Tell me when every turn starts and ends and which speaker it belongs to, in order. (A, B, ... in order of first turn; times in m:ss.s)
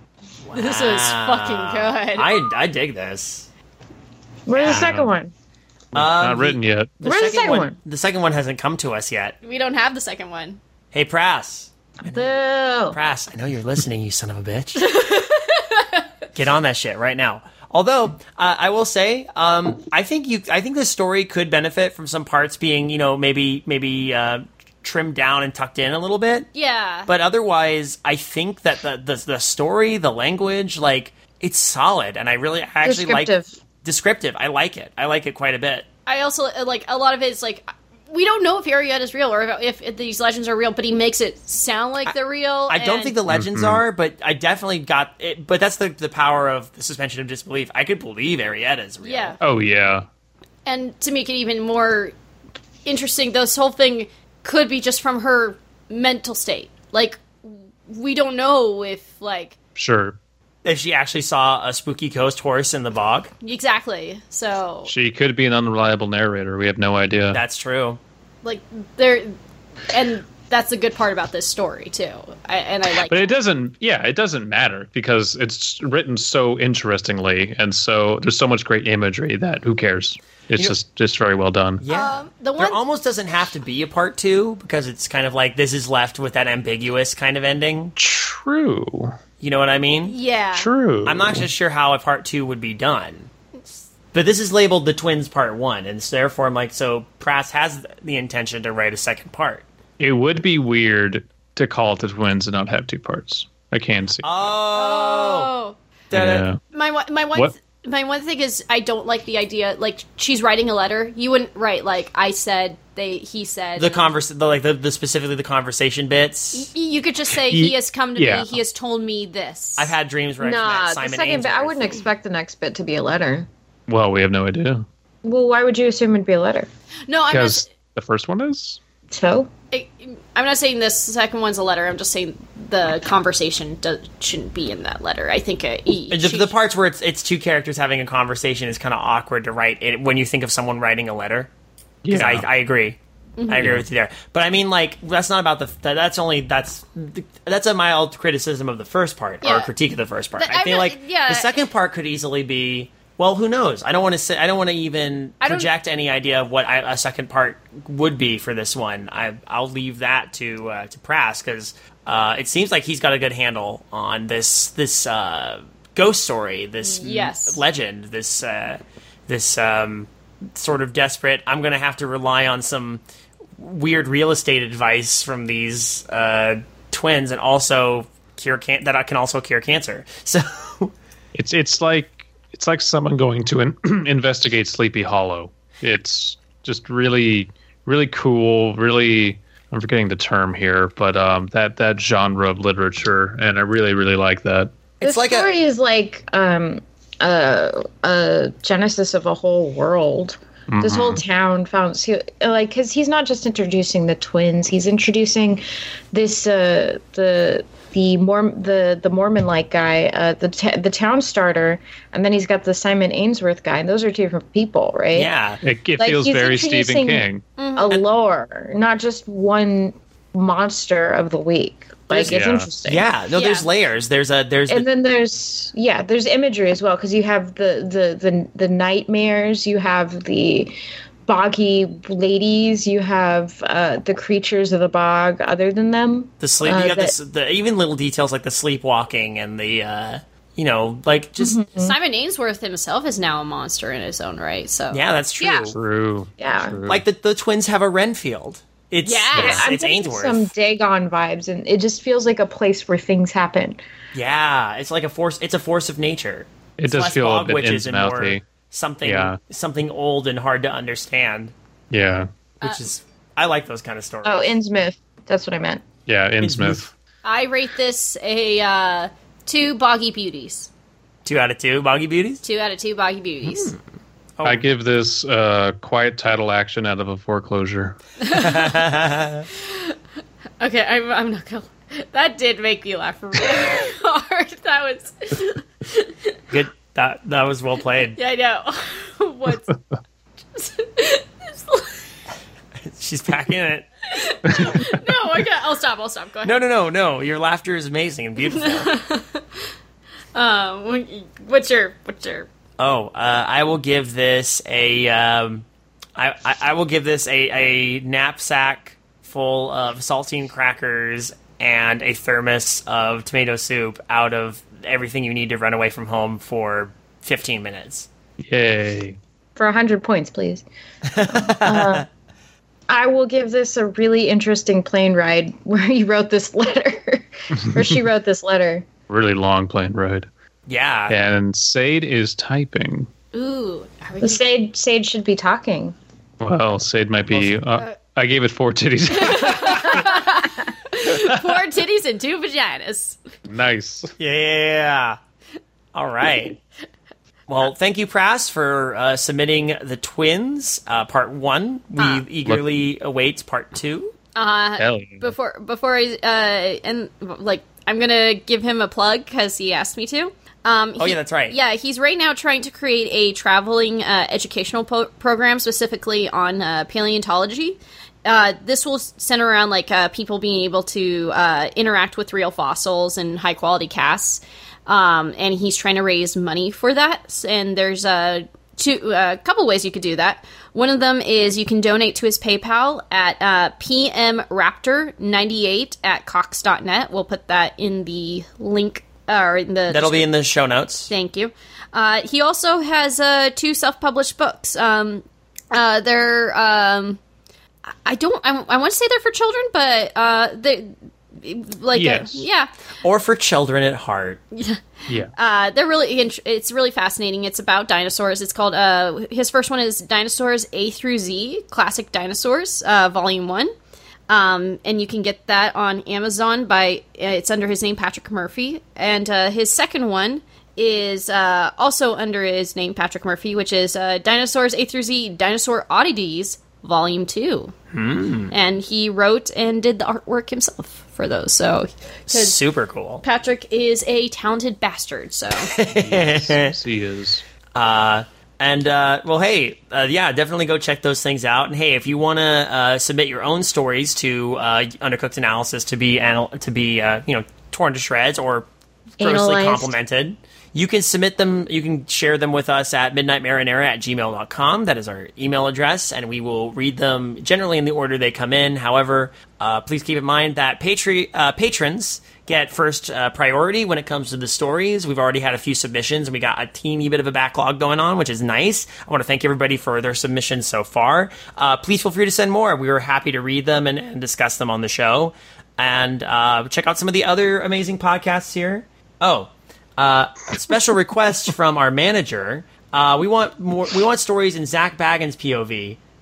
0:00.4-0:03.5 A
0:00.5-0:02.4 B
0:04.5-0:05.3 C
0:04.6-0:04.9 A
0:04.6-0:05.1 D
0:05.9-0:07.0 D
0:05.9-0:09.4 A
0:07.0-0:07.8 C
0:09.4-0:10.6 B
0:10.9-0:12.3 A
0:12.1-0:13.0 C
0:12.9-0:15.0 A
0:14.8-0:16.0 B
0:16.3-0:26.5 A
0:26.5-0:27.1 B
0:27.1-0:35.8 A
0:32.8-0:33.5 C
0:36.0-0:43.2 B
0:42.7-0:49.4 A
0:43.3-0:43.8 D
0:49.0-0:49.4 B
0:49.4-0:50.1 D
0:50.6-0:52.2 B
0:52.8-0:59.6 B
0:59.8-1:00.2 D
1:00.6-1:03.3 A
1:03.4-1:04.9 B
1:04.9-1:07.4 D
1:07.3-1:08.0 A
1:08.4-1:09.4 B
1:09.9-1:13.3 B
1:13.1-1:21.8 D
1:21.8-1:27.9 A
1:21.9-1:22.8 B
1:28.0-1:29.1 D
1:29.4-1:30.2 A
1:30.1-1:30.7 B
1:30.5-1:31.5 D
1:31.0-1:33.3 A
1:34.1-1:39.6 A
1:40.0-1:44.3 D
1:44.2-1:45.5 A
1:44.7-1:45.8 B
1:46.1-1:46.4 A
1:46.1-1:46.6 D
1:46.7-1:54.1 B
1:53.8-1:56.7 A
1:56.5-1:59.9 B
1:57.4-1:58.6 D
1:59.8-2:02.0 A
2:00.4-2:03.5 C
2:03.9-2:04.8 D
2:05.2-2:06.7 C
2:07.1-2:07.7 B
2:07.3-2:08.8 D
2:09.1-2:09.5 C
2:09.7-2:16.5 B
2:16.1-2:21.5 A
2:22.0-2:22.5 D
2:22.1-2:53.0 A
2:23.4-2:23.7 B
2:23.5-2:23.8 D
2:29.4-2:29.7 B
2:30.4-2:31.6 B
2:35.4-2:35.7 B
2:46.8-2:47.6 B
2:53.6-3:00.9 A
3:01.3-3:14.8 D
3:15.0-3:15.5 A
3:15.0-3:35.3 C
3:20.7-3:21.2 D
3:35.1-3:35.6 A
3:35.6-3:37.4 D
3:36.0-3:37.2 C
3:37.6-3:38.0 B
3:37.8-3:43.0 C
3:42.1-3:44.8 A
3:42.1-3:42.7 D
3:43.3-3:43.7 B
3:44.7-3:57.1 C
3:56.4-4:01.6 A
4:01.4-4:01.9 C
4:01.8-4:05.0 B
4:04.9-4:05.8 A
4:05.4-4:05.8 C
4:05.7-4:07.0 D
4:06.4-4:06.8 C
4:06.9-4:10.5 A
4:09.0-4:09.6 B
4:09.4-4:13.8 C
4:14.1-4:21.5 A
4:16.8-4:18.4 D
4:19.0-4:19.4 D
4:21.9-4:22.3 D
4:22.6-4:24.6 A
4:24.2-4:25.8 C
4:26.1-4:26.9 D
4:26.4-4:26.8 A
4:27.2-4:30.7 B
4:31.2-4:32.4 A
4:32.4-4:33.8 B
4:34.4-4:34.7 A
4:34.4-4:38.0 D
4:38.2-4:38.8 B
4:38.3-4:39.4 A
4:39.6-4:39.9 B
4:40.6-4:46.2 B
4:46.5-4:48.2 A
4:48.2-4:49.7 B
4:50.5-4:52.0 B
4:52.8-4:53.9 A
4:54.1-4:56.6 B
4:56.4-4:58.9 A
4:58.5-4:59.4 B
5:00.3-5:02.5 B
5:02.8-5:05.6 A
5:06.2-5:18.1 A
5:18.4-5:19.2 D
5:19.6-5:20.6 C
5:21.1-5:22.0 A
5:21.4-5:22.0 C
5:22.9-5:28.8 C
5:29.1-5:30.3 D
5:30.7-5:31.2 A
5:31.1-5:33.1 D
5:33.3-5:34.6 B
5:34.2-5:36.0 C
5:36.4-5:40.2 D
5:37.3-5:37.6 A
5:39.2-5:43.2 B
5:41.1-5:41.4 D
5:43.5-5:44.1 D
5:44.2-5:45.2 A
5:45.9-5:46.6 A
5:47.5-5:54.1 A
5:52.0-5:52.2 B
5:54.3-6:30.3 B
5:54.8-5:55.3 D
6:01.0-6:01.6 A
6:29.9-6:31.1 A
6:31.1-6:37.2 B
6:37.9-6:42.7 B
6:41.9-6:42.5 D
6:43.0-6:44.4 A
6:44.5-6:53.7 B
6:45.1-6:45.3 D
6:54.3-7:07.7 B
7:07.9-7:08.5 A
7:08.5-7:12.6 B
7:12.3-7:13.2 A
7:13.2-7:15.7 B
7:15.6-7:16.7 A
7:15.9-7:17.4 D
7:17.7-7:28.7 A
7:29.2-7:29.9 C
7:29.2-8:06.0 A